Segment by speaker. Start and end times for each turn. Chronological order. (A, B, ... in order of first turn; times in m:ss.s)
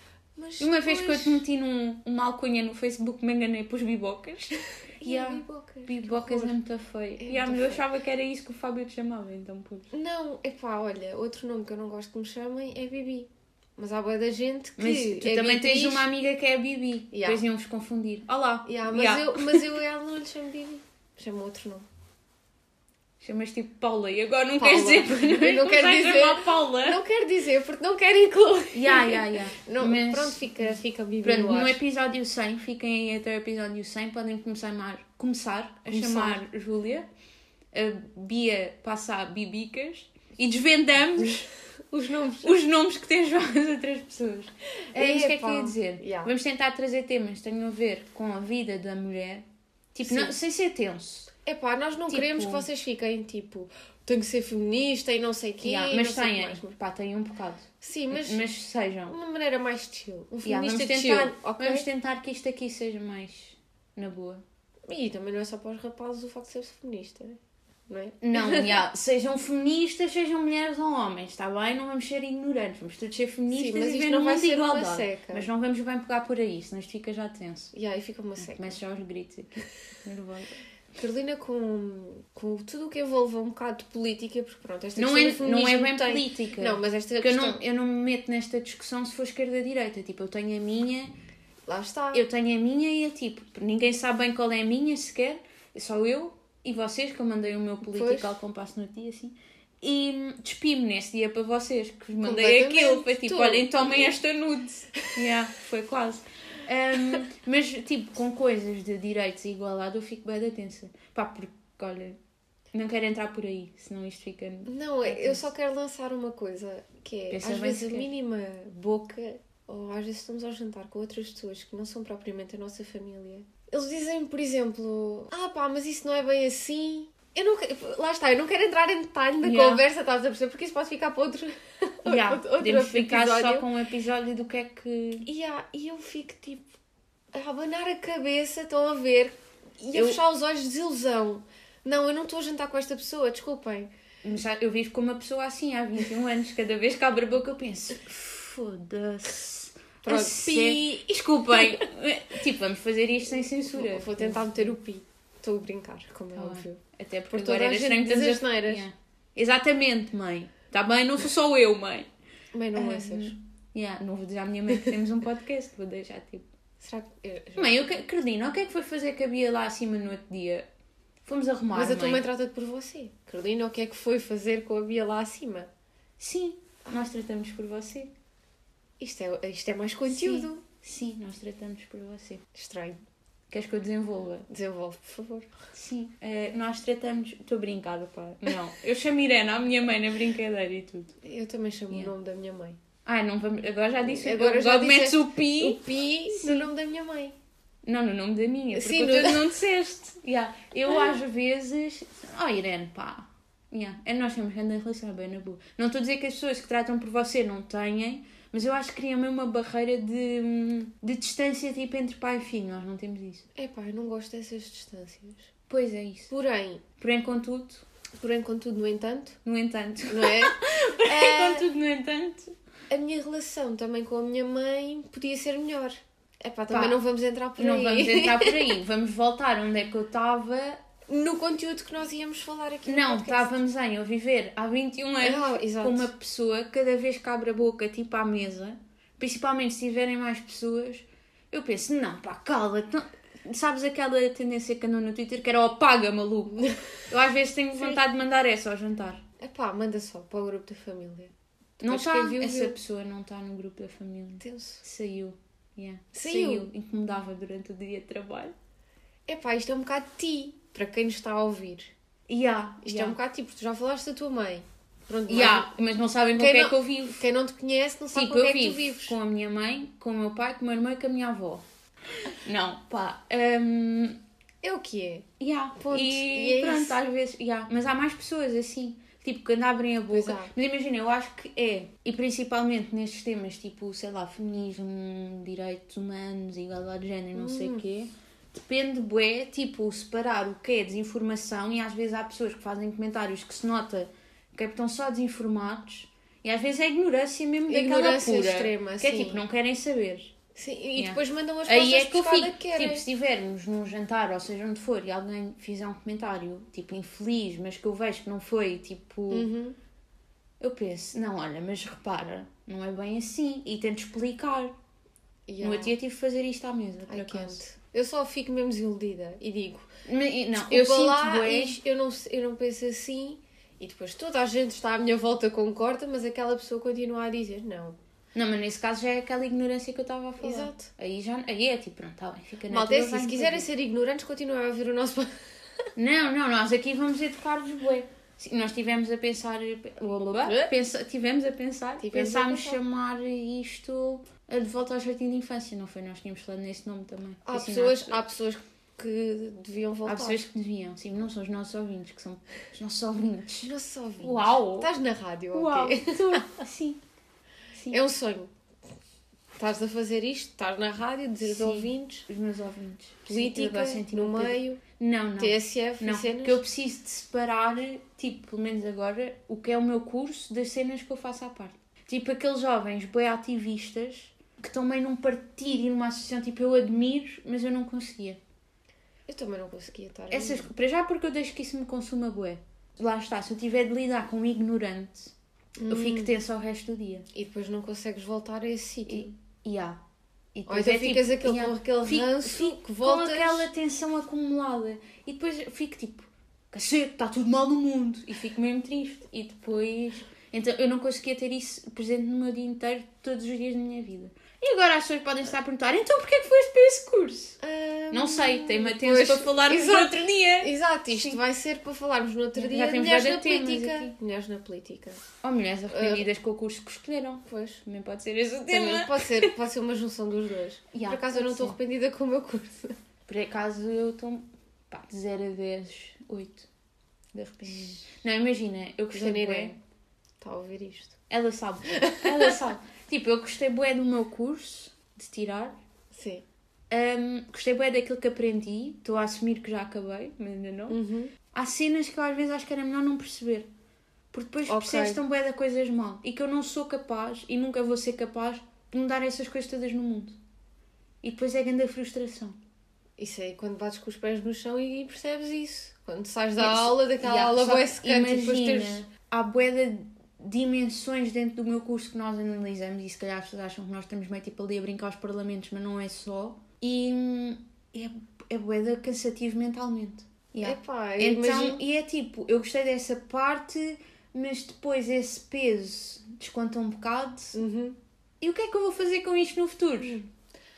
0:00.4-0:01.4 A
0:00.6-0:09.9 B
0:05.0-0:06.6 A
0:07.2-0:07.8 A
0:09.9-0:16.1 A
0:14.8-0:19.8 B
0:17.1-0:17.4 A
0:18.6-0:21.8 A
0:23.2-0:27.0 B
0:24.6-0:31.8 A
0:28.7-0:37.0 B
0:35.9-0:36.4 A
0:37.7-0:41.5 B
0:41.9-0:42.6 A
0:42.4-0:51.3 B
0:44.9-0:46.3 A
0:50.0-0:50.3 A
0:51.4-0:56.7 A
0:52.1-0:52.6 B
0:55.6-0:59.1 B
0:57.8-0:58.4 A
0:59.1-1:01.8 A
1:00.4-1:04.4 B
1:04.9-1:07.4 A
1:07.9-1:08.8 A
1:08.2-1:17.7 B
1:13.5-1:15.5 A
1:17.7-1:18.8 A
1:18.4-1:20.5 B
1:21.0-1:27.6 A
1:25.0-1:31.1 B
1:31.7-1:32.2 A
1:32.1-1:52.2 B
1:37.8-1:38.3 A
1:42.2-1:44.1 A
1:52.7-1:55.4 B
1:54.6-2:13.6 A
1:57.3-1:58.1 B
2:09.4-2:09.8 B
2:12.0-2:15.2 B
2:15.2-2:16.6 A
2:17.3-2:23.9 A
2:19.9-2:20.2 B
2:24.2-2:34.7 B
2:30.0-2:31.8 A
2:33.7-2:38.8 A
2:36.3-2:42.1 B
2:42.5-2:43.4 A
2:42.7-2:46.5 B
2:46.8-2:47.8 A
2:47.6-2:50.7 B
2:51.2-2:52.2 B
2:51.7-2:55.7 A
2:56.2-2:58.1 B
2:59.0-3:00.6 A
3:00.1-3:02.4 B
3:02.5-3:03.0 A
3:03.5-3:04.5 B
3:04.5-3:05.5 A
3:05.7-3:11.1 B
3:11.2-3:12.8 A
3:13.0-3:16.7 B
3:14.1-3:17.4 A
3:17.8-3:33.4 B
3:18.7-3:19.5 A
3:33.6-3:35.5 A
3:35.7-3:36.3 B
3:36.3-3:36.8 A
3:37.0-3:37.8 B
3:38.2-3:39.4 A
3:39.4-3:42.5 B
3:40.1-3:41.7 A
3:42.9-3:48.8 A
3:46.7-3:47.0 B
3:47.6-3:50.8 B
3:51.1-3:53.6 A
3:52.8-4:09.2 B
3:55.2-3:56.1 A
4:09.4-4:12.8 A
4:11.8-4:18.5 B
4:14.4-4:14.8 A
4:16.1-4:16.7 A
4:19.3-4:21.9 A
4:22.3-4:23.2 B
4:22.8-4:25.7 A
4:25.3-4:27.2 B
4:26.4-4:29.2 A
4:28.1-4:31.6 B
4:32.2-4:34.2 B
4:34.6-4:35.3 A
4:35.4-5:00.3 B
4:35.8-4:37.0 A
4:40.1-4:40.5 A
4:47.3-4:47.8 A
4:57.7-4:59.4 A
5:00.5-5:03.0 A
5:01.0-5:09.5 B
5:09.3-5:09.8 A
5:10.6-5:14.7 B
5:15.5-5:15.9 A
5:15.6-5:17.6 B
5:17.1-5:19.9 A
5:20.0-5:21.8 B
5:20.5-5:28.0 A
5:28.3-5:33.7 B
5:30.4-5:30.9 A
5:32.7-5:35.3 A
5:36.0-5:48.2 B
5:40.4-5:40.7 A
5:42.0-5:42.8 A
5:47.4-5:50.4 A
5:50.0-5:54.9 B
5:53.6-5:56.5 A
5:55.5-5:57.0 B
5:57.8-5:58.0 B
5:57.9-5:58.5 A
5:59.6-6:02.3 A
6:01.4-6:18.4 B
6:03.3-6:04.8 A
6:05.4-6:06.6 A
6:19.3-6:20.7 A
6:20.3-6:25.3 B
6:25.8-6:26.3 A
6:25.9-6:27.2 B
6:27.3-6:29.3 A
6:29.1-6:30.0 B
6:30.5-6:47.6 B
6:30.7-6:33.7 A
6:47.6-6:55.2 A
6:48.1-6:51.4 B
6:52.5-6:54.1 B
6:55.4-6:59.6 B
6:55.9-6:56.2 A
6:57.4-6:57.8 A
6:58.7-7:03.0 A
7:00.9-7:01.8 B
7:03.3-7:06.7 B
7:07.3-7:09.7 B
7:09.1-7:09.8 A
7:10.4-7:11.2 A
7:11.3-7:15.8 B
7:11.9-7:12.5 A
7:16.1-7:16.4 A
7:16.9-7:21.0 B
7:20.9-7:21.3 A
7:21.5-7:23.7 B
7:24.3-7:30.4 B
7:24.6-7:25.2 A
7:31.2-7:32.6 B
7:33.2-7:39.0 A
7:36.6-7:57.6 B
7:50.6-7:51.8 A
7:57.5-7:58.0 A
7:58.4-8:00.2 B